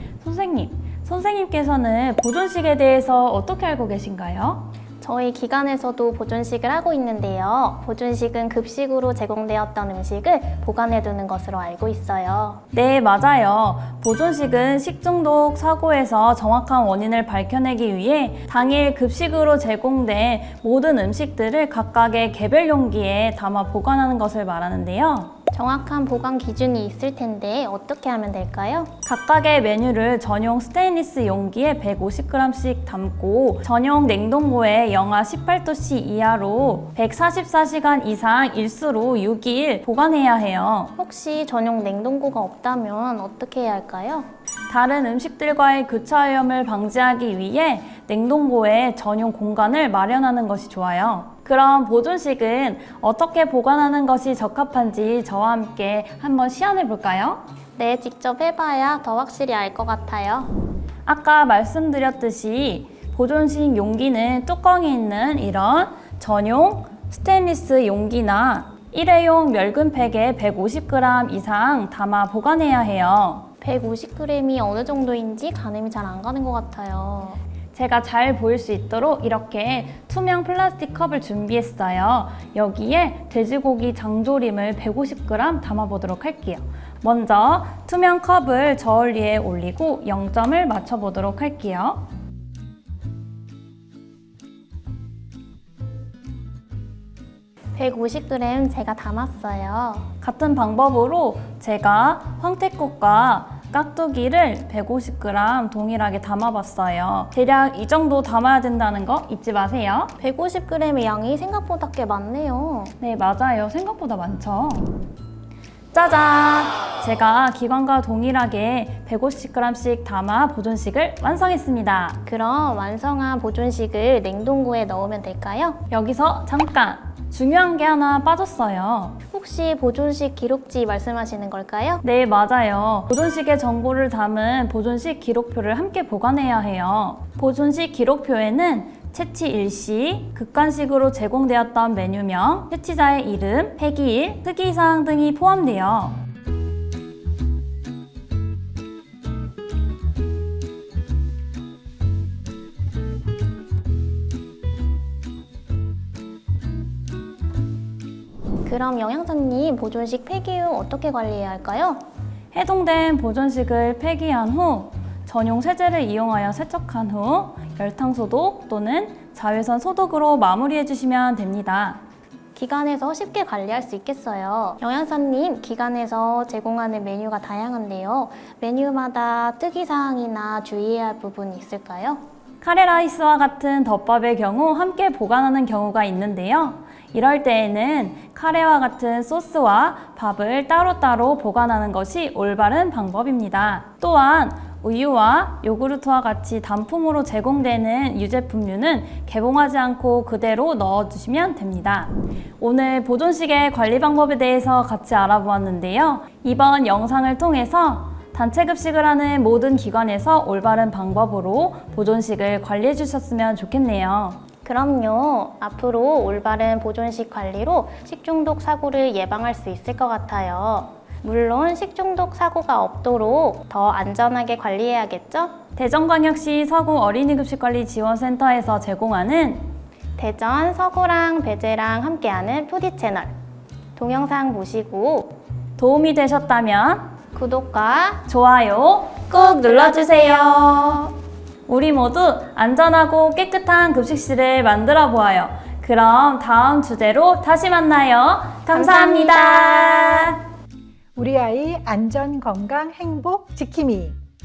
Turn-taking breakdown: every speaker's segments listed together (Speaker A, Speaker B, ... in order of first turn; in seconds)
Speaker A: 0.2-4.7, 12.7-25.3, 29.1-40.9, 44.7-57.4, 61.0-73.5, 77.7-92.0, 100.2-110.1, 113.0-114.9, 115.9-122.2, 125.9-129.2, 132.0-146.2, 162.5-172.0, 182.6-214.4, 225.8-229.6, 235.8-237.1, 238.3-241.1, 241.7-250.4
Speaker B: 5.0-12.6, 25.5-28.9, 41.0-44.3, 57.8-60.5, 73.6-77.4, 97.8-100.1, 110.2-112.9, 122.2-125.8, 129.3-132.0, 158.6-162.0, 172.5-182.2, 214.6-225.6, 230.2-233.3, 234.0-235.3, 237.3-238.2, 239.3-241.0, 248.7-250.3
Speaker C: 251.2-254.2